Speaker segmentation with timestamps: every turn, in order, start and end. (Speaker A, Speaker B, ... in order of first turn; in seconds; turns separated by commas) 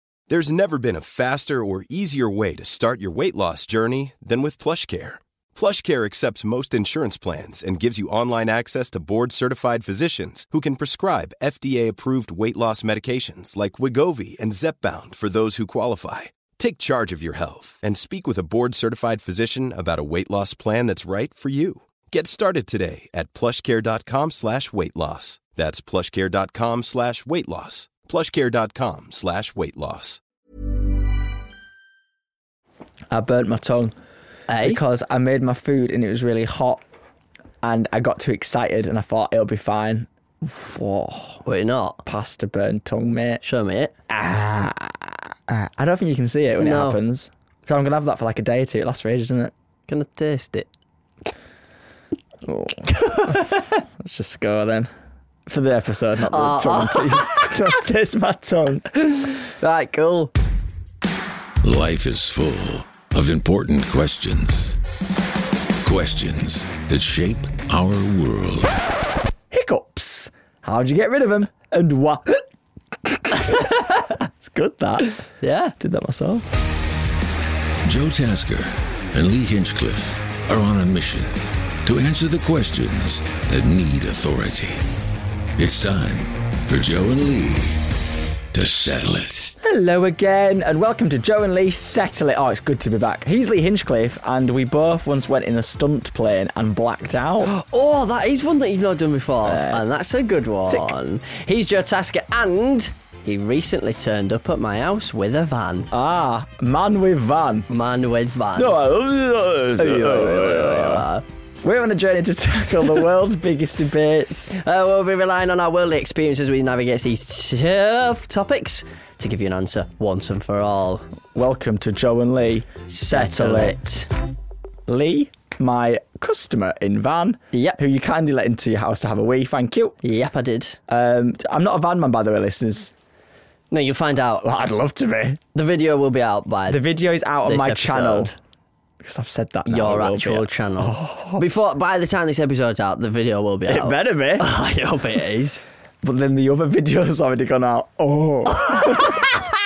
Speaker A: 0.3-30.2, Speaker B: 33.1-33.9, Speaker C: 34.5-34.8, Speaker B: 34.6-36.8, Speaker B: 37.6-41.4, Speaker C: 41.4-42.0, Speaker B: 42.0-43.4, Speaker C: 43.4-43.9, Speaker B: 44.1-49.5, Speaker C: 46.6-47.0, Speaker C: 49.9-50.7, Speaker B: 52.4-54.9, Speaker C: 52.9-53.4, Speaker B: 55.5-58.9, Speaker C: 56.2-57.6, Speaker C: 59.0-60.3, Speaker D: 61.6-64.8, Speaker D: 65.8-68.8, Speaker B: 69.5-72.4, Speaker B: 73.0-73.7, Speaker B: 74.4-75.1, Speaker C: 75.4-75.7, Speaker B: 75.8-76.5, Speaker D: 77.8-84.8, Speaker D: 85.6-87.9, Speaker D: 88.5-89.5, Speaker B: 89.6-97.5, Speaker C: 97.4-105.9, Speaker B: 99.4-99.8, Speaker B: 100.7-100.9, Speaker B: 105.9-107.7, Speaker C: 107.7-108.8, Speaker B: 108.5-111.0, Speaker C: 109.8-111.2, Speaker B: 111.6-114.5, Speaker C: 114.5-121.0, Speaker B: 121.3-123.8, Speaker C: 122.9-124.1, Speaker B: 124.9-130.0, Speaker C: 127.5-127.8, Speaker C: 130.0-130.8, Speaker B: 130.9-132.9, Speaker C: 133.7-134.4, Speaker B: 134.4-135.4, Speaker C: 135.5-136.8, Speaker B: 136.7-138.3, Speaker C: 137.4-138.3, Speaker B: 139.0-141.4, Speaker C: 139.7-145.6, Speaker B: 143.7-144.5, Speaker B: 146.0-149.4, Speaker C: 148.5-149.2